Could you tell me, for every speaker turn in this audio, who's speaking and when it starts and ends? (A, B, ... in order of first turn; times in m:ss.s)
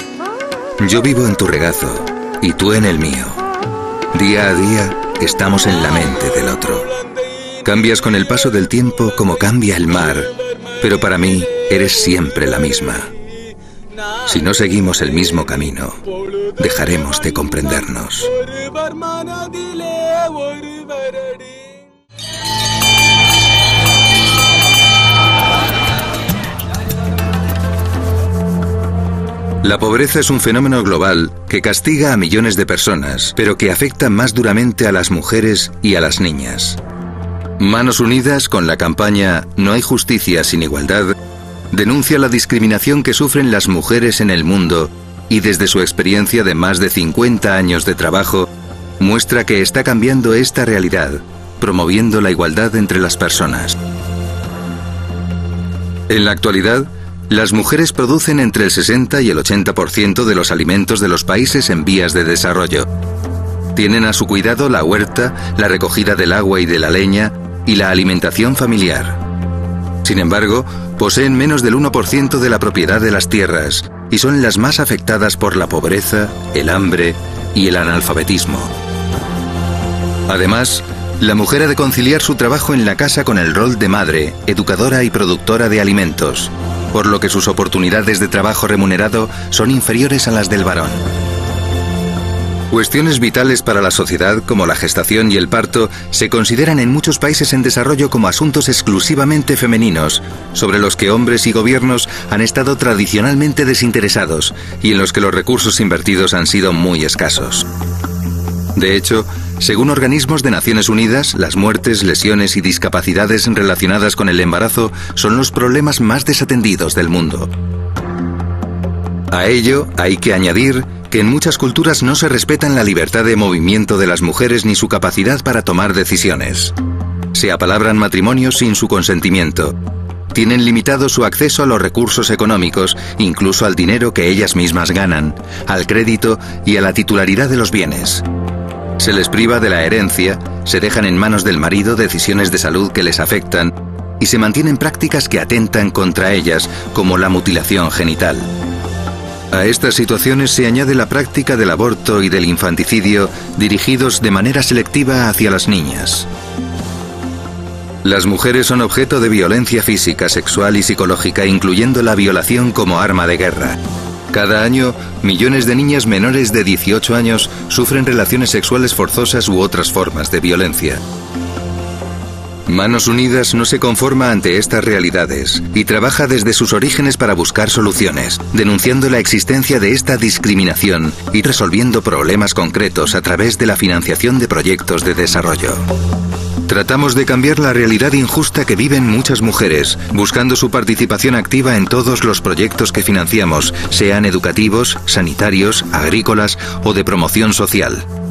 0:00.8-0:03.4 A
0:04.1-0:06.9 A
0:07.6-0:13.1 A
0:14.2-0:16.0 A
0:16.6-0:18.4 A
0:29.6-0:36.8 A
0:37.6-0:41.2 A
0:41.7-0:53.8 A
0:56.1-1:02.9 A
1:03.8-1:09.2 A
1:10.0-1:18.7 A
1:20.3-1:31.0 A
1:32.7-1:47.7 A
1:48.8-1:57.5 A
1:59.3-2:06.7 A
2:07.3-2:09.8 A
2:10.3-2:18.2 A
2:19.0-2:28.5 A
2:29.5-2:36.3 A
2:38.0-2:43.8 A
2:44.3-2:51.0 A
2:52.7-3:05.8 A
3:06.7-3:18.0 A